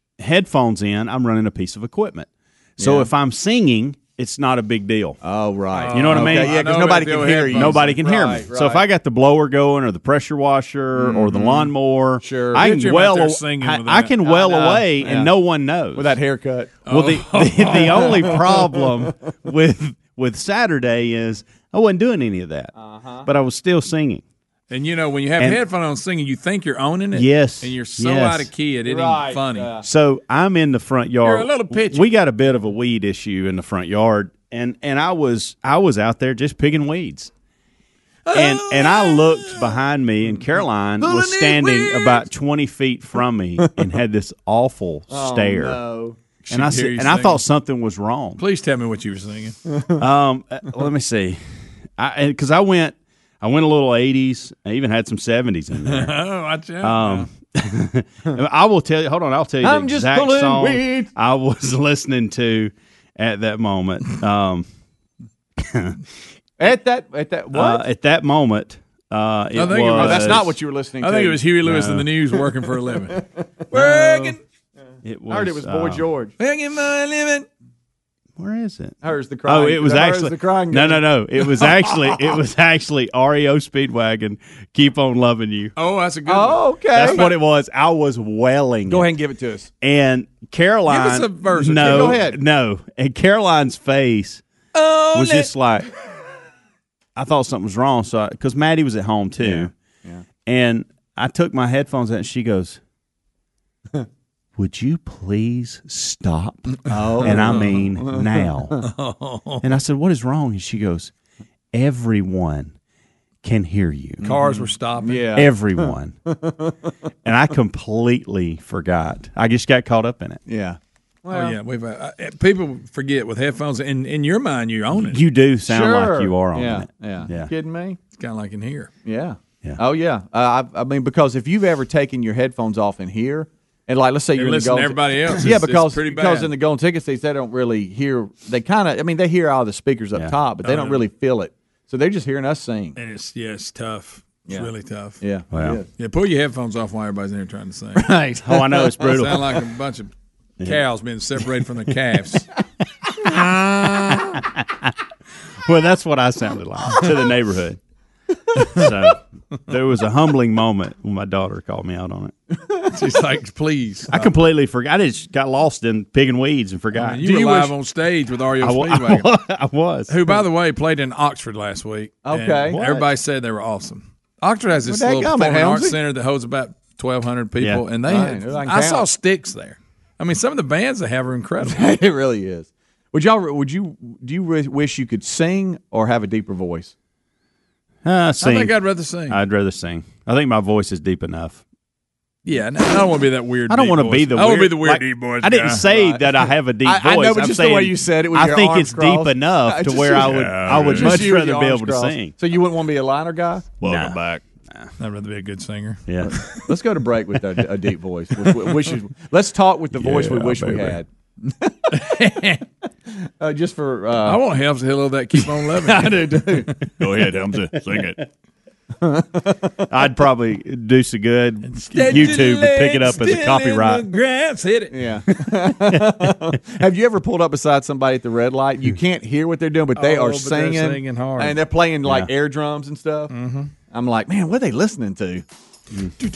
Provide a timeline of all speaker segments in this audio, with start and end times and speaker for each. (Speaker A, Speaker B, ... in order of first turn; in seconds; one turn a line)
Speaker A: 0.2-5.2
Speaker B: 2.8-3.1
Speaker B: 5.2-8.8
Speaker C: 5.8-8.0
Speaker A: 5.9-6.7
Speaker A: 7.5-16.2
Speaker B: 10.9-12.7
Speaker C: 12.6-14.6
Speaker B: 14.3-15.3
Speaker B: 15.9-16.7
Speaker C: 16.9-18.6
Speaker A: 16.9-22.7
Speaker B: 17.7-18.9
Speaker B: 22.8-23.3
Speaker A: 23.2-24.2
Speaker C: 24.7-29.7
Speaker A: 27.1-28.5
Speaker B: 28.9-29.9
Speaker A: 29.8-37.3
Speaker C: 31.2-32.1
Speaker C: 38.3-39.7
Speaker A: 38.3-45.8
Speaker C: 41.0-42.2
Speaker B: 45.1-46.2
Speaker C: 46.4-47.4
Speaker A: 46.5-48.4
Speaker C: 48.4-49.6
Speaker A: 50.0-51.4
Speaker A: 52.0-56.2
Speaker C: 55.9-57.3
Speaker A: 56.8-64.7
Speaker B: 59.6-61.1
Speaker A: 65.6-66.0
Speaker B: 66.6-67.8
Speaker A: 67.5-70.5
Speaker C: 69.5-70.5
Speaker B: 69.9-71.4
Speaker C: 71.0-74.4
Speaker A: 71.6-72.1
Speaker B: 73.2-74.3
Speaker A: 75.0-76.1
Speaker B: 75.3-76.3
Speaker C: 76.4-77.5
Speaker A: 78.4-85.8
Speaker B: 79.0-81.1
Speaker C: 85.8-87.4
Speaker B: 86.3-87.3
Speaker A: 87.0-89.1
Speaker B: 88.9-89.7
Speaker A: 89.8-94.4
Speaker C: 90.9-92.2
Speaker B: 91.8-92.4
Speaker C: 94.7-95.5
Speaker A: 95.1-95.9
Speaker A: 97.2-99.7
Speaker B: 99.4-100.2
Speaker A: 100.5-102.8
Speaker A: 104.6-108.9
Speaker B: 106.9-108.8
Speaker C: 107.2-107.7
Speaker C: 108.8-109.6
Speaker A: 109.6-111.1
Speaker A: 111.7-112.8
Speaker A: 113.4-114.3
Speaker B: 114.2-116.9
Speaker C: 114.2-115.3
Speaker A: 115.3-116.2
Speaker A: 117.2-120.4
Speaker B: 120.5-121.6
Speaker C: 121.3-125.2
Speaker A: 124.9-127.5
Speaker B: 125.7-128.0
Speaker C: 128.2-128.9
Speaker B: 129.1-143.0
Speaker C: 134.4-136.5
Speaker C: 140.6-141.1
Speaker C: 143.0-145.2
Speaker B: 145.2-145.9
Speaker A: 145.5-145.8
Speaker C: 146.0-148.2
Speaker A: 148.1-149.7
Speaker C: 148.8-152.5
Speaker A: 153.1-154.9
Speaker A: 155.7-157.8
Speaker A: 158.5-162.3
Speaker C: 162.9-164.3
Speaker A: 164.1-167.7
Speaker C: 166.9-169.3
Speaker A: 168.6-170.4
Speaker C: 170.1-181.9
Speaker B: 172.2-172.8
Speaker A: 172.7-173.0
Speaker B: 174.8-176.0
Speaker B: 178.1-179.1
Speaker B: 181.6-186.9
Speaker A: 188.0-191.6
Speaker C: 188.4-189.4
Speaker C: 192.4-195.8
Speaker A: 193.7-202.3
Speaker B: 195.9-196.3
Speaker B: 196.8-203.7
Speaker C: 200.2-201.3
Speaker A: 203.8-204.9
Speaker C: 203.9-204.2
Speaker C: 205.0-206.6
Speaker A: 206.1-206.6
Speaker B: 206.2-212.1
Speaker A: 209.9-211.0
Speaker C: 211.9-212.6
Speaker B: 213.1-214.4
Speaker C: 214.2-218.1
Speaker B: 215.8-217.6
Speaker A: 217.0-218.1
Speaker B: 219.0-219.8
Speaker A: 219.9-224.1
Speaker C: 221.7-224.9
Speaker B: 224.9-233.3
Speaker A: 225.8-226.5
Speaker C: 230.0-231.6
Speaker A: 232.1-232.3
Speaker C: 233.3-233.7
Speaker B: 233.9-235.4